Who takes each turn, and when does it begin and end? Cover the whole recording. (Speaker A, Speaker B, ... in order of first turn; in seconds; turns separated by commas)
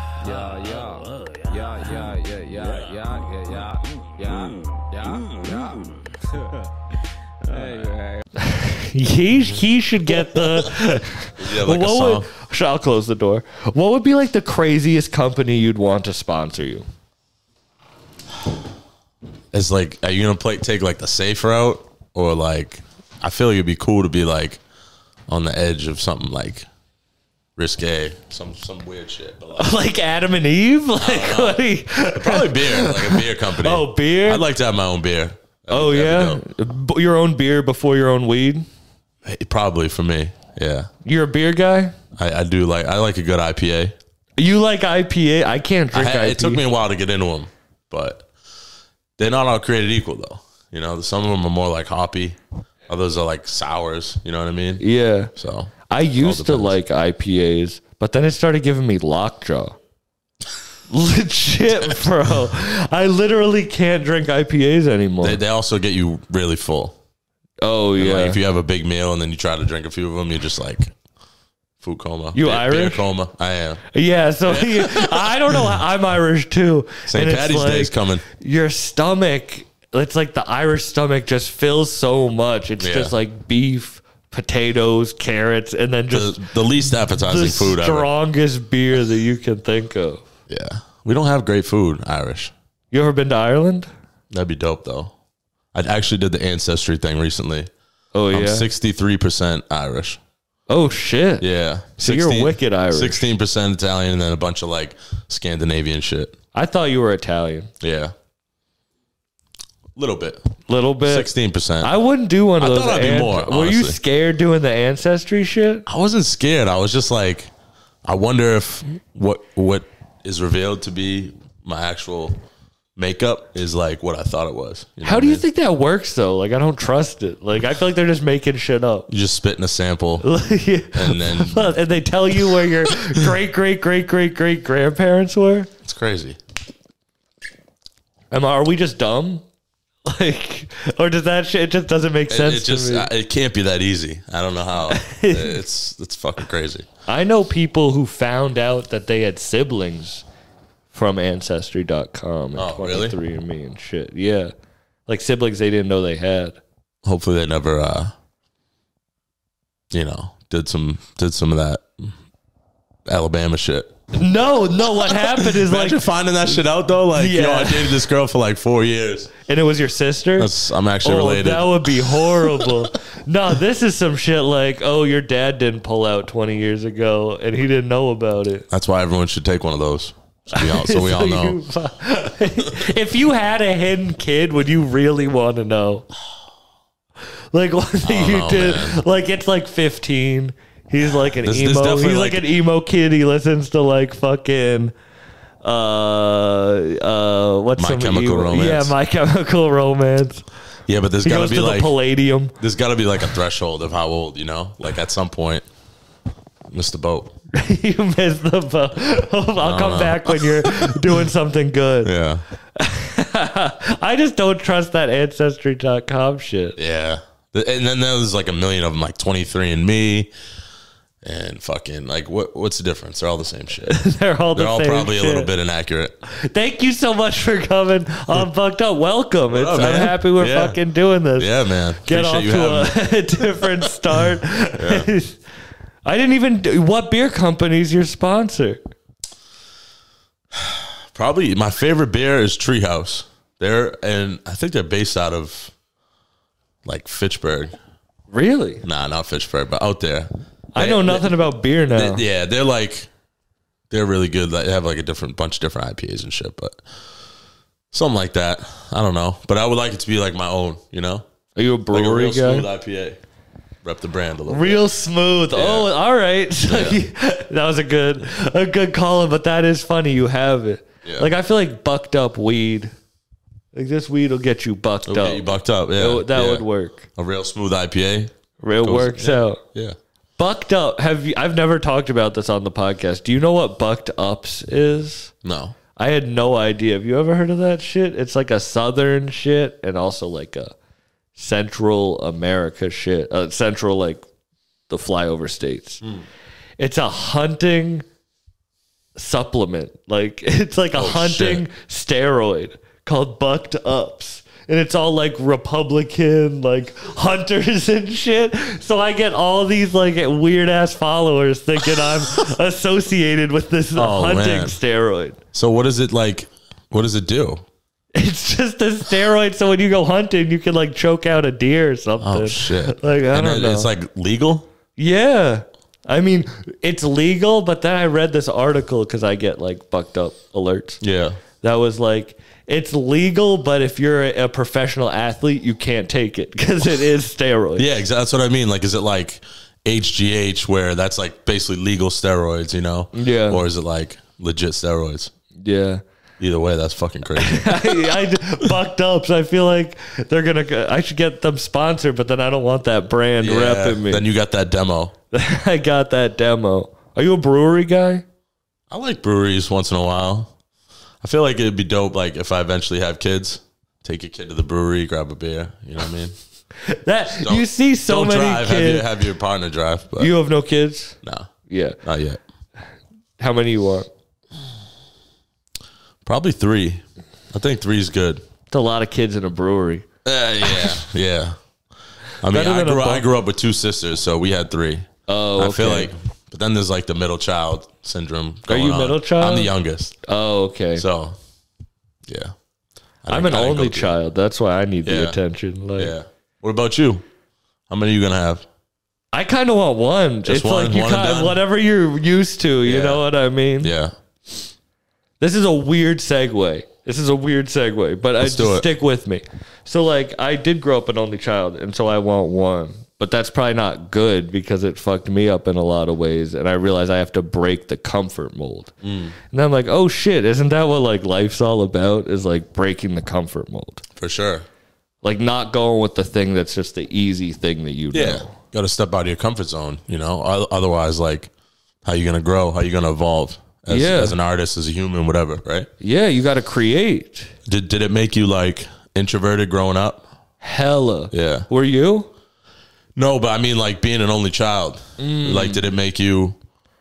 Speaker A: 0.2-6.2, Speaker A: 7.4-8.2, Speaker B: 8.4-16.9, Speaker C: 11.4-12.3, Speaker C: 19.5-24.6, Speaker C: 25.3-26.7, Speaker C: 27.6-29.8, Speaker B: 29.6-34.4, Speaker C: 31.0-31.6, Speaker C: 32.1-36.4, Speaker B: 35.7-38.6, Speaker C: 39.2-40.9, Speaker B: 41.0-42.0, Speaker C: 42.1-43.9, Speaker B: 44.4-46.6, Speaker C: 45.9-48.3, Speaker C: 49.2-52.4, Speaker C: 52.9-54.8, Speaker B: 54.8-55.3, Speaker C: 55.4-56.8, Speaker B: 55.9-59.8, Speaker B: 60.9-65.4, Speaker C: 65.2-67.0, Speaker B: 67.6-68.4, Speaker C: 68.0-70.9, Speaker C: 71.8-73.8, Speaker B: 72.3-73.0, Speaker B: 73.9-86.5, Speaker C: 74.5-75.8, Speaker C: 77.1-78.2, Speaker C: 82.8-83.1, Speaker C: 86.1-88.1, Speaker B: 87.2-90.2, Speaker C: 90.5-92.5, Speaker B: 92.9-93.9, Speaker C: 94.3-95.1, Speaker C: 95.7-97.7, Speaker B: 98.1-98.7, Speaker C: 98.3-100.2, Speaker B: 100.7-101.4, Speaker C: 101.4-106.3, Speaker B: 102.0-103.2, Speaker B: 106.5-107.7, Speaker C: 107.8-108.1, Speaker C: 110.0-110.4, Speaker B: 110.7-111.3, Speaker C: 111.0-111.9, Speaker B: 111.8-115.8, Speaker C: 112.6-114.0, Speaker C: 115.9-117.5, Speaker C: 118.0-122.4, Speaker C: 123.0-125.4, Speaker B: 125.0-129.1, Speaker C: 129.1-130.3, Speaker B: 130.2-135.7, Speaker C: 130.9-131.7, Speaker C: 132.6-132.9, Speaker C: 135.8-136.4, Speaker B: 138.3-139.4, Speaker B: 140.1-143.1, Speaker C: 142.3-146.9, Speaker B: 144.9-145.6, Speaker B: 147.1-150.2, Speaker B: 150.9-154.5, Speaker C: 152.6-153.2, Speaker B: 155.1-156.6, Speaker C: 157.0-158.1, Speaker C: 159.9-162.1, Speaker C: 163.1-163.9, Speaker B: 164.1-166.0, Speaker C: 165.0-169.3, Speaker B: 167.1-168.0, Speaker B: 169.5-170.5, Speaker C: 170.4-172.9, Speaker B: 171.0-178.7, Speaker C: 178.7-181.6, Speaker B: 180.5-186.1, Speaker B: 187.5-194.9, Speaker C: 188.0-189.0, Speaker C: 191.4-192.4, Speaker B: 195.6-200.4, Speaker C: 197.8-198.9, Speaker C: 200.9-201.9, Speaker B: 201.2-202.6, Speaker C: 202.6-205.6, Speaker C: 206.7-207.3, Speaker B: 207.5-212.1, Speaker C: 209.6-211.0, Speaker C: 212.0-212.4, Speaker B: 212.8-216.8, Speaker C: 216.8-220.3, Speaker C: 221.2-224.0, Speaker B: 223.9-225.5, Speaker C: 224.5-226.1, Speaker B: 226.2-235.4, Speaker C: 229.5-230.8, Speaker C: 231.4-235.1, Speaker B: 236.0-238.8, Speaker C: 240.5-245.7, Speaker C: 246.8-247.7, Speaker B: 248.3-248.8, Speaker C: 248.8-251.3, Speaker B: 250.7-252.2, Speaker C: 251.9-253.1, Speaker C: 253.9-256.8, Speaker C: 257.9-261.2, Speaker B: 261.6-262.7, Speaker C: 261.9-263.2, Speaker C: 263.8-264.8, Speaker B: 264.5-272.9, Speaker C: 265.5-265.9, Speaker C: 266.6-267.0, Speaker C: 271.0-271.3, Speaker B: 273.7-277.1, Speaker C: 275.1-278.3, Speaker B: 278.6-279.6, Speaker C: 278.8-279.9, Speaker B: 280.4-285.3, Speaker C: 285.4-285.8, Speaker B: 285.9-290.7, Speaker B: 291.4-294.2, Speaker B: 294.9-296.0, Speaker B: 296.8-298.0, Speaker B: 299.1-315.4, Speaker C: 300.9-301.6, Speaker C: 311.9-312.5, Speaker C: 313.9-314.8, Speaker C: 315.5-317.6, Speaker B: 318.1-323.9, Speaker C: 322.2-324.7, Speaker B: 325.0-331.0, Speaker C: 331.0-331.4, Speaker B: 331.6-337.9, Speaker C: 337.8-345.3, Speaker B: 343.1-343.6, Speaker B: 345.6-346.0, Speaker C: 346.4-348.7, Speaker B: 347.4-354.2, Speaker C: 353.4-355.1, Speaker B: 355.3-358.2, Speaker C: 358.9-360.5, Speaker C: 361.2-366.3, Speaker B: 366.9-369.1, Speaker C: 367.4-370.3, Speaker B: 370.2-371.1, Speaker C: 371.2-371.5, Speaker B: 371.7-372.0, Speaker C: 372.0-372.4, Speaker B: 373.4-374.1, Speaker C: 376.2-378.4, Speaker B: 378.7-380.1, Speaker C: 380.2-381.6, Speaker C: 382.4-390.1, Speaker B: 382.5-383.2, Speaker B: 385.3-386.1, Speaker B: 388.7-389.7, Speaker B: 390.2-391.0, Speaker C: 391.0-391.4, Speaker C: 392.3-392.5, Speaker C: 393.2-394.1, Speaker B: 393.3-396.1, Speaker C: 395.0-395.4, Speaker C: 396.0-397.2, Speaker C: 397.9-398.6, Speaker B: 399.3-403.9, Speaker C: 400.4-401.6, Speaker C: 402.8-403.2, Speaker C: 403.8-404.1, Speaker B: 405.4-418.9, Speaker C: 408.4-408.9, Speaker C: 419.0-419.3, Speaker B: 419.5-424.0, Speaker C: 424.1-424.6, Speaker B: 425.2-428.5, Speaker C: 428.1-431.5, Speaker C: 432.0-435.9, Speaker B: 433.9-434.4, Speaker B: 436.0-437.5, Speaker C: 437.6-440.2, Speaker B: 440.6-442.3, Speaker C: 441.3-441.6, Speaker C: 443.1-446.6, Speaker B: 445.2-445.8